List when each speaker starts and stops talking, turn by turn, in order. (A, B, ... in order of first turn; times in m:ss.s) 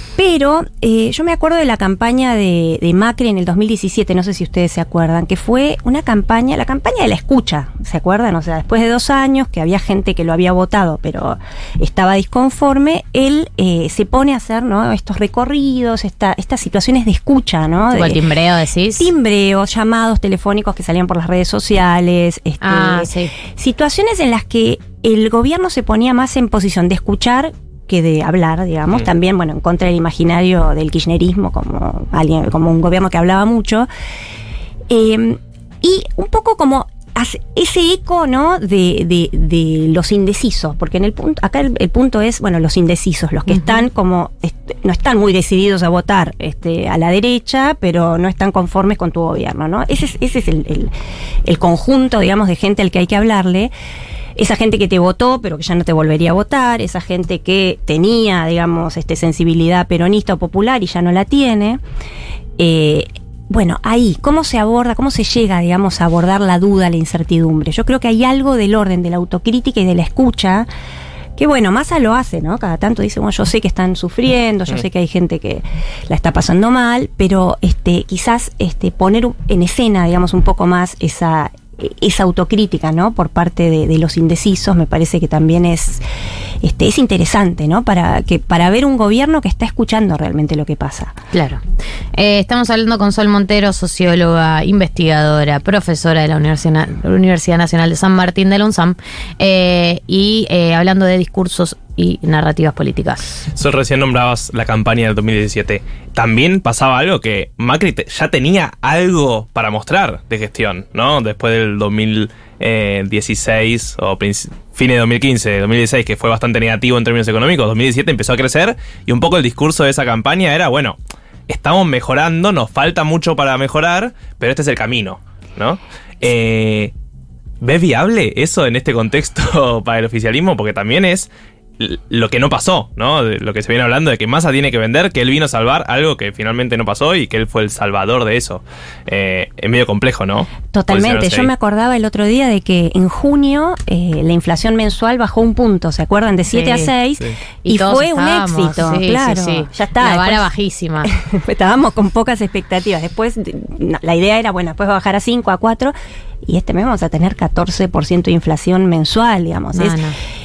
0:00.2-0:18.3 A
0:17.9-0:19.1 B
0:19.0-0:33.9 A
0:22.6-0:23.3 B
0:34.9-0:50.9 A
0:51.4-0:53.7 A
0:54.4-1:01.8 A
1:02.6-1:10.7 A
1:11.4-1:26.0 A
1:26.6-1:31.2 A
1:31.3-1:31.6 B
1:32.2-1:43.4 B
1:43.6-2:06.9 C
2:07.6-2:21.5 C
2:20.7-2:30.5 A
2:26.5-2:26.9 B
2:27.6-2:31.1 B
2:31.0-2:40.0 A
2:39.7-2:40.2 B